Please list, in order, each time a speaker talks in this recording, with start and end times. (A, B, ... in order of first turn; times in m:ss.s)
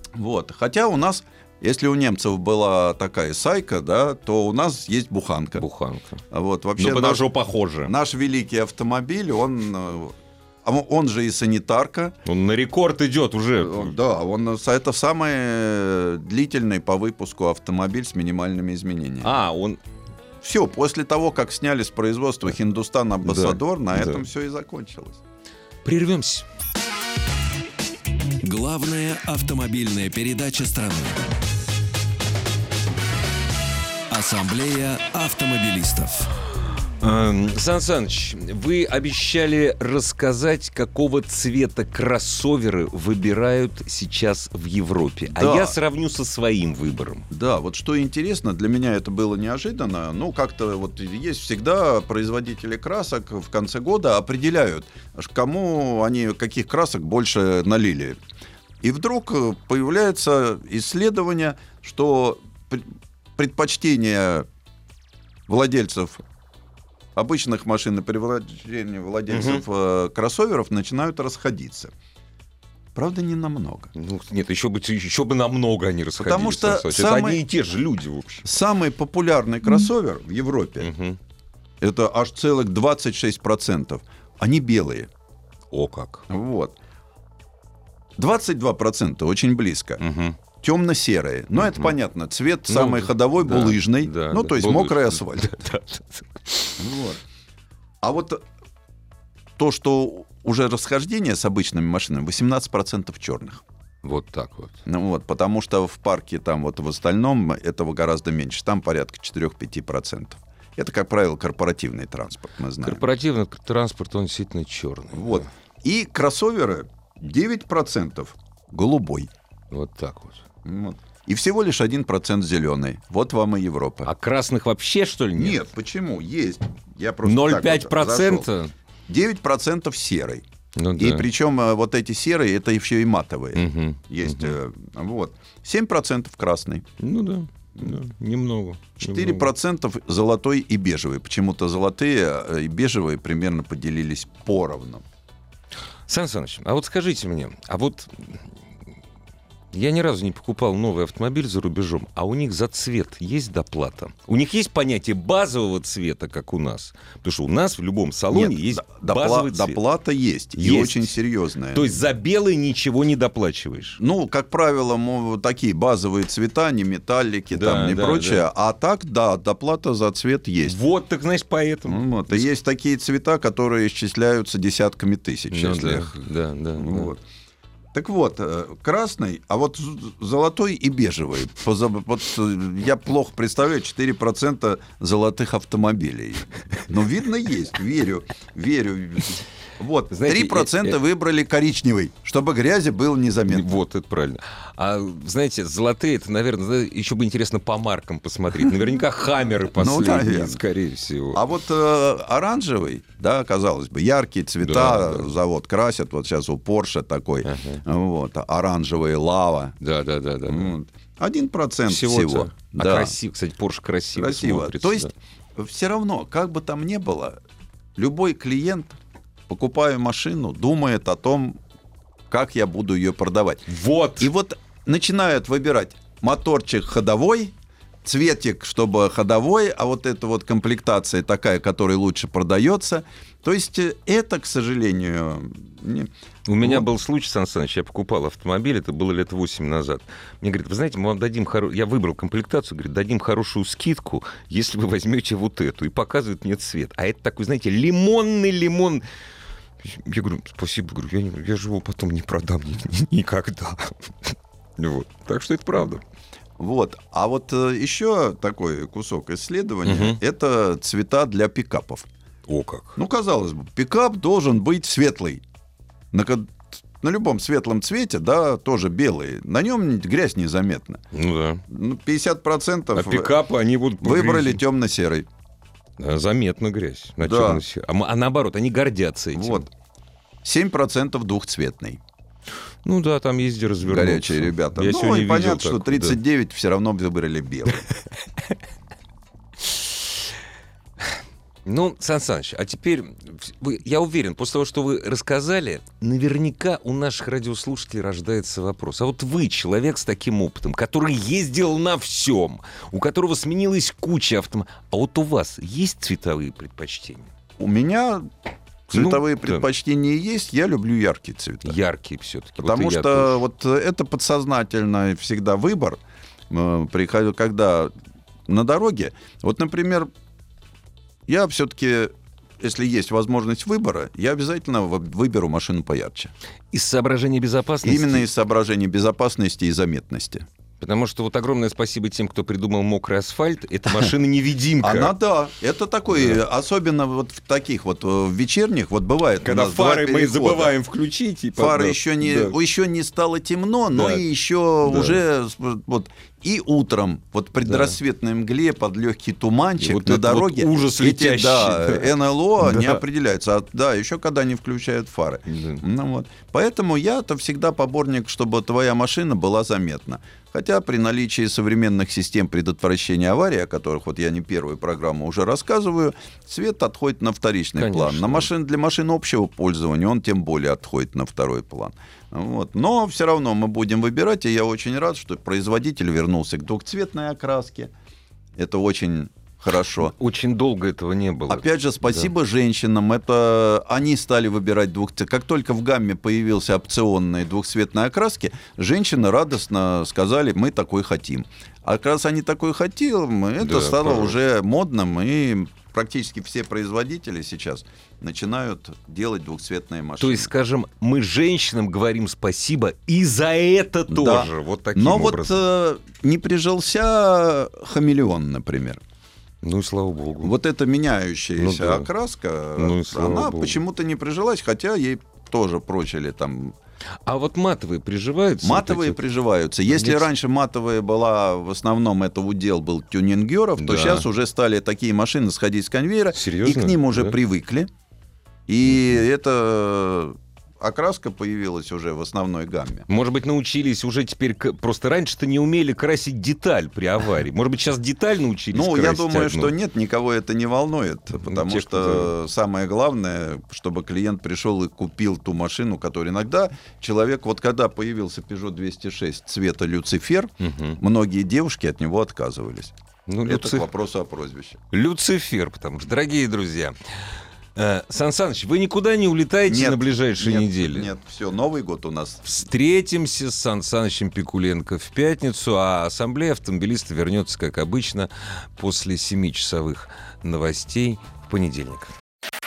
0:00.1-0:05.6 A
0:05.6-0:06.2 B
0:06.3-0:07.3 A
0:06.8-0:07.9 B
0:07.8-0:12.2 A
0:12.2-0:13.9 B
0:13.6-0:19.3 A
0:19.2-0:19.8 B
0:20.4-0:25.2 A
0:23.2-0:24.2 B
0:25.8-0:26.4 B
0:28.4-0:31.2 C
0:34.1-0:36.3 C
0:37.0-0:47.3 B
0:45.3-0:45.8 A
0:47.3-0:58.2 A
0:58.8-1:04.5 A
1:05.5-1:06.2 A
1:07.1-1:11.9 A
1:09.3-1:09.6 B
1:12.9-1:13.9 A
1:13.9-1:18.4 B
1:16.2-1:17.4 A
1:18.4-1:20.9 A
1:20.8-1:21.2 B
1:21.8-1:25.1 A
1:25.7-1:26.3 B
1:26.3-1:26.8 A
1:28.2-1:30.0 A
1:30.0-1:30.4 B
1:30.6-1:35.6 A
1:31.6-1:31.9 B
1:32.7-1:36.8 B
1:36.8-1:37.2 A
1:38.0-1:38.4 A
1:39.6-1:43.6 A
1:44.0-1:44.8 B
1:44.9-1:53.1 A
1:52.8-1:55.5 B
1:55.1-1:59.3 A
1:59.7-2:00.4 B
2:00.6-2:04.1 A
2:04.0-2:05.6 B
2:05.4-2:08.5 A
2:07.2-2:08.7 B
2:09.1-2:10.4 A
2:10.8-2:11.3 B
2:11.0-2:16.9 A
2:13.5-2:14.6 B
2:17.0-2:19.5 B
2:19.0-2:25.0 A
2:26.1-2:28.5 B
2:29.7-2:39.8 B
2:38.3-2:42.0 A
2:40.6-2:41.1 B
2:41.7-2:44.0 B
2:44.0-2:50.8 A
2:47.5-2:48.4 B
2:50.6-2:52.5 B
2:51.9-2:56.2 A
2:55.5-2:57.1 B
2:56.8-2:57.2 A
2:57.9-3:13.8 A
3:10.1-3:11.0 B
3:13.5-3:21.4 B
3:19.7-3:20.6 A
3:21.3-3:29.8 A
3:24.6-3:25.3 B
3:27.4-3:27.8 B
3:29.8-3:30.7 B
3:30.4-3:33.1 A
3:31.9-3:35.1 B
3:34.1-3:37.4 A
3:38.0-3:39.0 A
3:39.5-3:41.6 A
3:42.3-3:43.7 A
3:43.7-3:44.3 B
3:44.2-3:47.5 A
3:48.0-3:56.9 A
3:56.5-4:09.0 B
4:09.8-4:16.0 B
4:16.6-4:22.1 A
4:19.8-4:20.2 B
4:22.5-4:23.0 B
4:23.0-4:25.4 A
4:26.1-4:31.0 A
4:31.1-4:31.6 B
4:31.7-4:33.3 A
4:33.0-4:34.6 B
4:34.0-4:35.3 A
4:36.0-4:39.7 B
4:37.2-4:37.6 A
4:39.3-4:39.7 A
4:40.4-4:42.0 A
4:42.8-4:46.2 B
4:43.8-4:47.8 A
4:51.6-5:07.3 B
5:07.6-5:08.3 A
5:08.9-5:11.8 A
5:08.9-5:09.6 B
5:11.6-5:13.4 B
5:12.6-5:17.9 A
5:18.5-5:20.1 A
5:21.3-5:26.3 A
5:26.7-5:28.3 B
5:27.8-5:30.4 A
5:30.8-5:35.1 B
5:34.8-5:40.7 A
5:39.4-5:42.6 B
5:41.6-6:17.9 A
5:43.9-5:44.2 B
5:44.8-5:45.2 B
5:47.6-5:48.0 B
5:49.8-5:53.0 B
5:55.5-5:55.8 B
6:07.8-6:08.5 B
6:18.6-6:20.1 A
6:20.0-6:22.3 B
6:21.5-6:40.5 A
6:33.6-6:34.4 B
6:40.2-6:45.6 B
6:44.1-6:49.0 A
6:49.6-6:50.6 B
6:50.4-6:56.8 A
6:51.6-6:52.1 B
6:52.8-6:53.8 B
6:57.3-6:59.2 B
6:58.6-7:07.9 A
6:59.9-7:00.3 B
7:03.8-7:04.3 B
7:06.3-7:07.4 B
7:08.7-7:13.1 A
7:13.1-7:19.7 B
7:18.7-7:34.8 A
7:21.4-7:22.3 B
7:30.6-7:31.0 B
7:33.3-7:33.9 B
7:34.9-7:41.1 B
7:39.7-7:42.4 A
7:42.4-7:52.1 B